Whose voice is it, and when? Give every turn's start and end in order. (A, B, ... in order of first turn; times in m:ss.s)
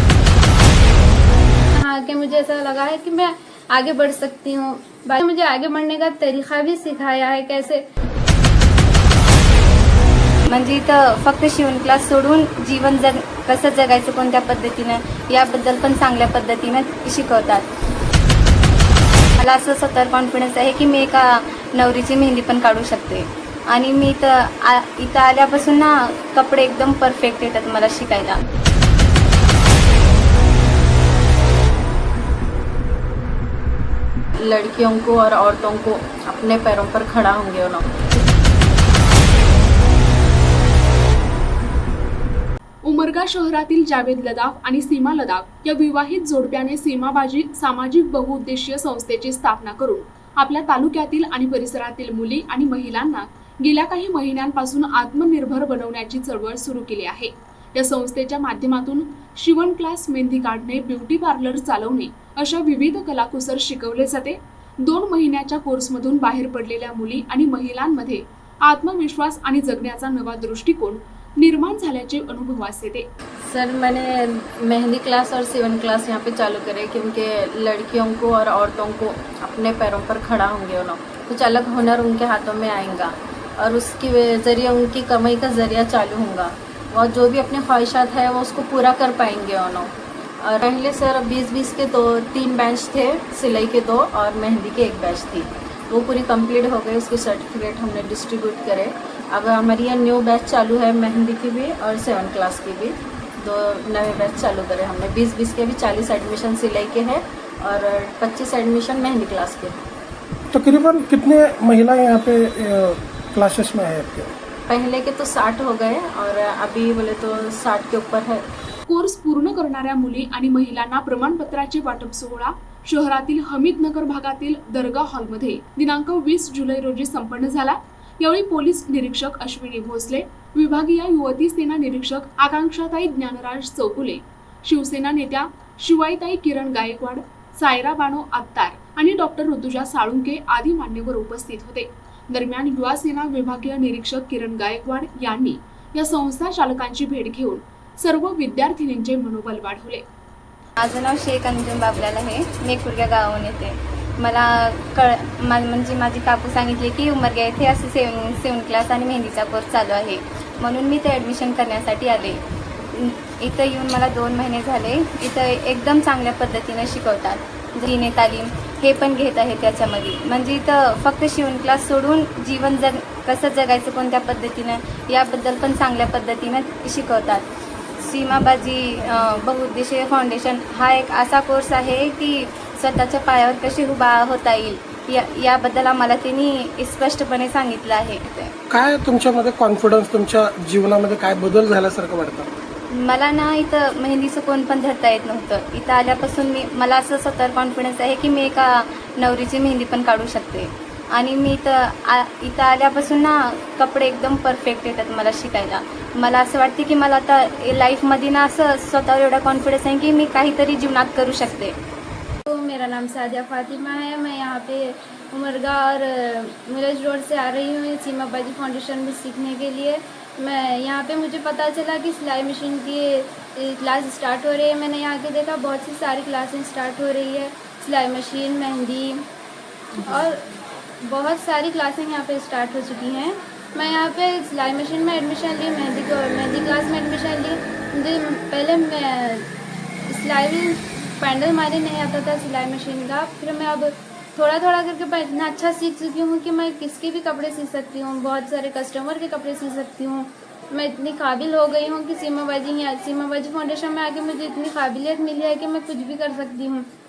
0:01.7-0:07.8 A
0:10.5-0:17.6 B
0:19.4-0:28.4 B
0:34.4-0:38.0 C
0:42.8-1:13.1 D
1:13.4-1:49.8 C
1:50.5-1:54.3 E
1:54.7-1:58.4 C
1:58.9-2:30.0 D
2:30.8-2:42.4 B
2:42.9-2:57.4 B
2:58.0-3:08.5 B
3:08.7-3:12.5 E
3:12.9-3:31.8 B
3:32.5-3:49.2 A
3:50.0-3:50.4 A
3:51.0-3:59.5 A
4:00.1-4:16.9 A